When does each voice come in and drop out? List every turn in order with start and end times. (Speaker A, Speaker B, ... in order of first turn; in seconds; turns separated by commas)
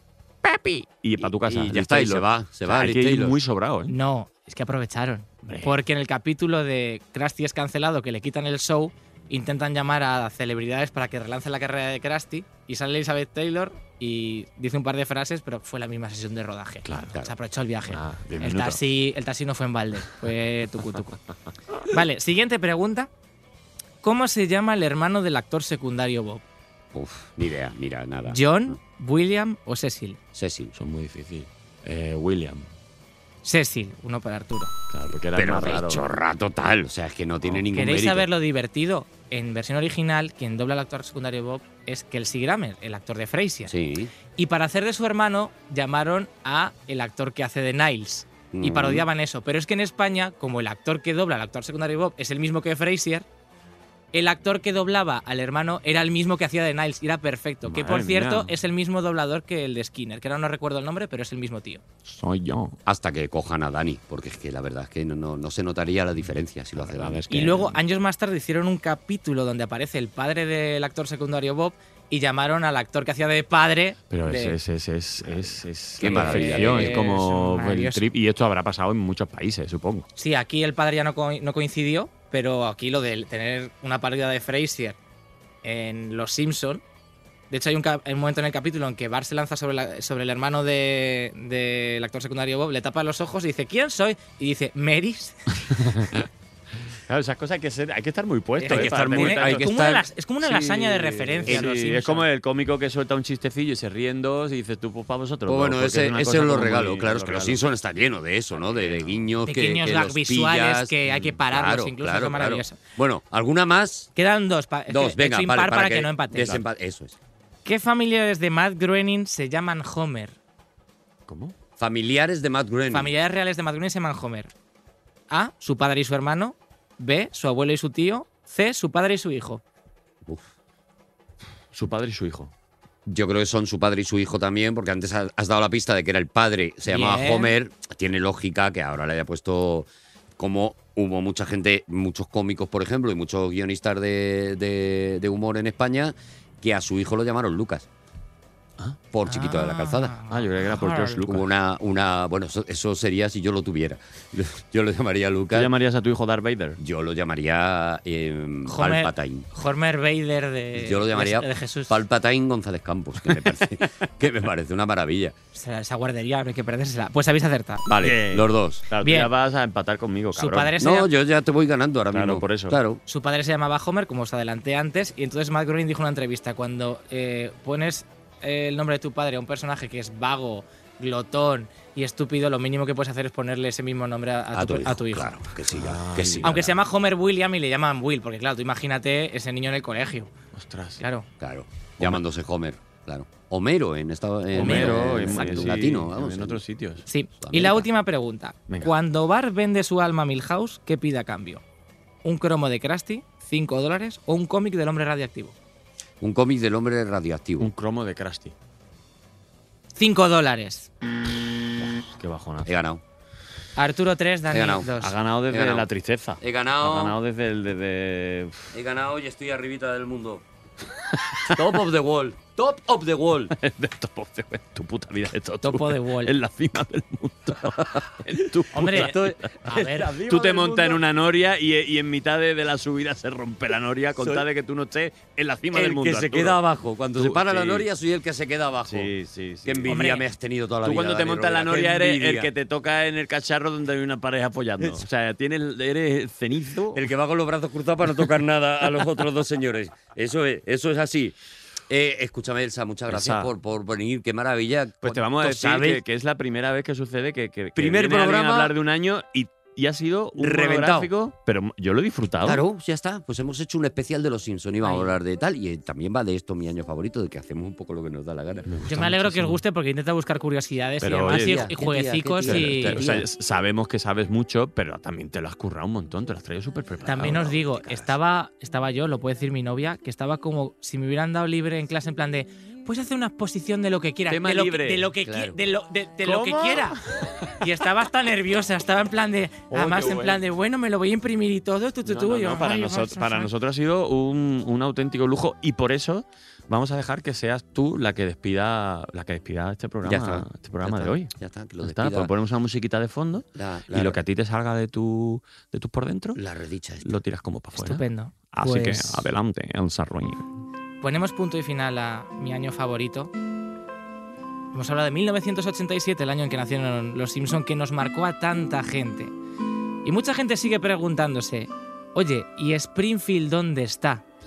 Speaker A: 0.4-4.0, Speaker B: 1.2-3.4, Speaker C: 3.9-21.2, Speaker A: 5.4-5.7, Speaker A: 16.9-17.2, Speaker A: 17.9-18.8, Speaker C: 21.9-23.1, Speaker C: 24.0-26.4, Speaker B: 26.9-28.8, Speaker C: 28.3-30.2, Speaker B: 30.4-30.7, Speaker A: 30.8-32.7, Speaker C: 33.4-34.7, Speaker A: 34.9-36.1, Speaker B: 35.4-38.3, Speaker C: 37.7-43.7, Speaker B: 43.7-44.1, Speaker C: 44.4-53.3, Speaker B: 48.5-49.1, Speaker C: 54.1-61.8, Speaker A: 57.6-58.5, Speaker A: 62.0-62.8, Speaker B: 62.9-67.8, Speaker A: 66.8-67.7, Speaker C: 67.3-74.6, Speaker A: 74.1-80.1, Speaker B: 76.0-77.0, Speaker C: 76.0-78.0, Speaker C: 80.2-85.0, Speaker C: 85.6-86.8, Speaker C: 87.5-95.5, Speaker A: 95.9-96.2, Speaker A: 97.1-99.8, Speaker C: 98.6-102.2, Speaker B: 98.7-100.1, Speaker A: 100.4-107.7, Speaker B: 105.5-111.0, Speaker A: 108.5-109.3, Speaker C: 109.5-112.8, Speaker A: 111.1-111.4, Speaker B: 111.5-114.1, Speaker C: 114.2-116.5, Speaker B: 114.9-117.2, Speaker A: 116.4-116.7, Speaker C: 117.7-120.4, Speaker A: 121.3-121.6, Speaker B: 121.8-123.1, Speaker C: 122.9-124.5, Speaker C: 125.3-129.6, Speaker A: 131.7-132.5, Speaker B: 133.1-139.9, Speaker C: 136.9-137.5, Speaker B: 140.4-147.9, Speaker B: 149.1-150.1, Speaker C: 149.3-151.2, Speaker A: 150.3-151.5, Speaker B: 151.3-155.7, Speaker A: 155.5-156.8, Speaker B: 156.8-159.5, Speaker C: 158.7-161.9, Speaker B: 160.8-165.3, Speaker C: 165.6-167.9, Speaker B: 167.9-168.8, Speaker A: 168.0-170.7, Speaker C: 169.0-169.3, Speaker C: 170.3-171.1, Speaker B: 170.8-173.0, Speaker A: 172.1-172.8, Speaker C: 173.1-185.3, Speaker B: 184.5-186.8, Speaker A: 185.7-186.6, Speaker C: 186.4-190.3, Speaker A: 190.5-191.0, Speaker C: 191.0-191.3, Speaker B: 191.4-196.6, Speaker A: 194.5-197.0, Speaker C: 194.6-195.7, Speaker C: 197.1-201.6, Speaker B: 197.4-197.9, Speaker C: 202.2-205.6, Speaker B: 206.2-207.7, Speaker A: 207.6-208.5, Speaker C: 209.9-210.9, Speaker A: 212.1-212.7, Speaker B: 212.7-213.0, Speaker C: 213.8-215.2, Speaker B: 214.5-214.9, Speaker A: 215.0-218.6, Speaker B: 215.5-215.9, Speaker B: 216.4-217.2, Speaker B: 218.7-220.4, Speaker B: 221.4-223.5, Speaker A: 223.5-236.6, Speaker C: 225.6-226.3, Speaker C: 228.7-230.1, Speaker B: 229.8-231.0, Speaker B: 234.2-234.4, Speaker B: 235.7-242.5, Speaker A: 237.2-237.9, Speaker A: 238.9-240.1, Speaker C: 239.9-240.2, Speaker A: 240.8-247.1, Speaker B: 244.8-245.1, Speaker B: 246.9-251.3, Speaker B: 251.9-256.0, Speaker A: 253.1-253.5, Speaker A: 255.0-262.6, Speaker B: 257.8-258.7, Speaker B: 260.4-261.1, Speaker B: 262.4-268.8, Speaker C: 264.8-265.1, Speaker A: 268.7-269.6, Speaker C: 268.9-273.0, Speaker A: 271.0-271.7, Speaker B: 271.3-273.2, Speaker A: 272.4-277.6, Speaker C: 277.1-287.0, Speaker B: 277.8-278.1, Speaker A: 284.3-285.1, Speaker B: 285.2-285.6, Speaker A: 286.2-287.5, Speaker C: 287.6-293.5, Speaker A: 289.7-290.4, Speaker A: 292.1-306.4, Speaker B: 300.0-302.3, Speaker B: 303.6-304.2, Speaker B: 306.4-307.1, Speaker A: 307.0-310.5, Speaker C: 307.8-309.3, Speaker C: 311.0-313.3, Speaker C: 314.7-319.3, Speaker C: 320.1-324.2